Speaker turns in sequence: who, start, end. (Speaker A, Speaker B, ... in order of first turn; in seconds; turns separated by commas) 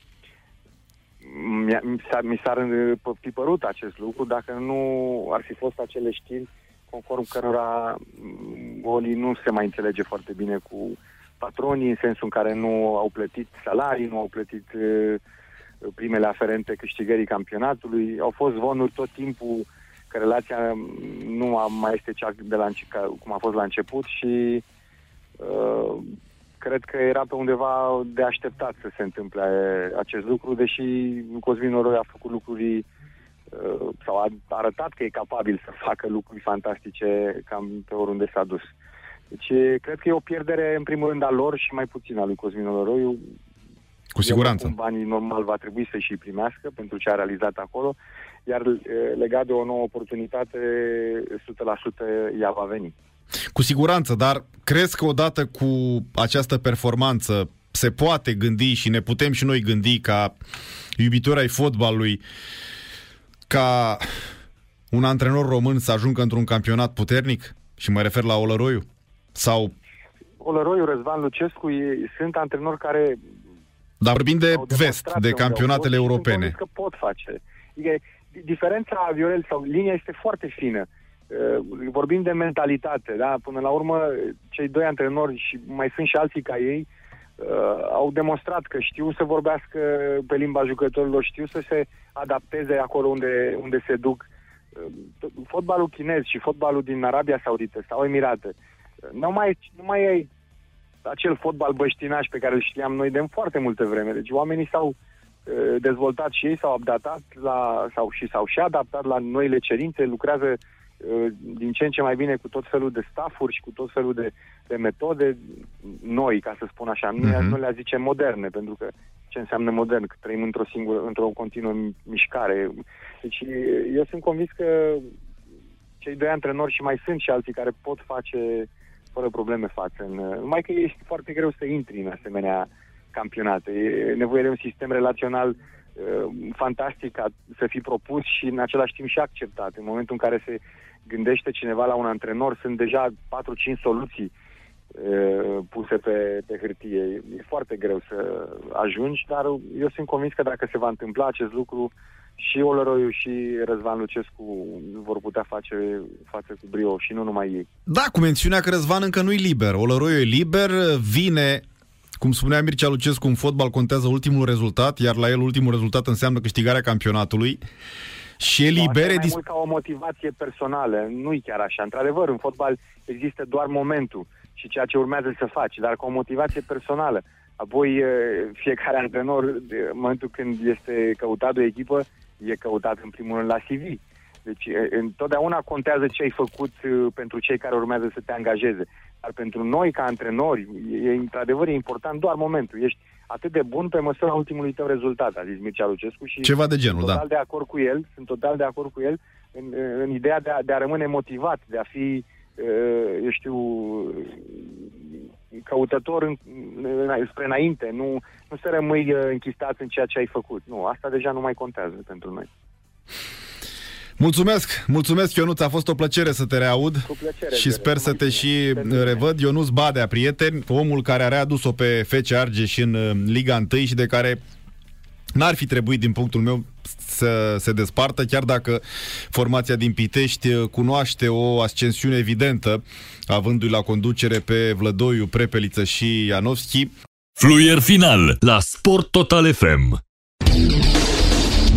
Speaker A: 1.2-15.2, Speaker A: 15.8-24.6, Speaker A: 25.4-32.9, Speaker A: 33.5-38.7, Speaker A: 39.3-43.3, Speaker B: 44.1-44.7, Speaker A: 44.2-52.9, Speaker B: 53.5-60.4, Speaker B: 61.0-62.2, Speaker B: 63.5-64.1, Speaker B: 64.9-69.7, Speaker A: 70.4-73.2, Speaker B: 74.0-76.6, Speaker A: 74.5-98.5, Speaker A: 99.1-100.3, Speaker A: 101.0-105.0, Speaker A: 105.5-125.1, Speaker B: 117.2-117.6, Speaker A: 126.0-144.3, Speaker A: 144.9-157.7, Speaker B: 157.9-161.6, Speaker B: 162.2-167.6, Speaker B: 168.4-169.4, Speaker A: 168.7-212.5, Speaker B: 196.4-197.2, Speaker B: 214.2-224.4, Speaker A: 217.1-219.2, Speaker B: 225.3-236.9, Speaker C: 237.4-240.0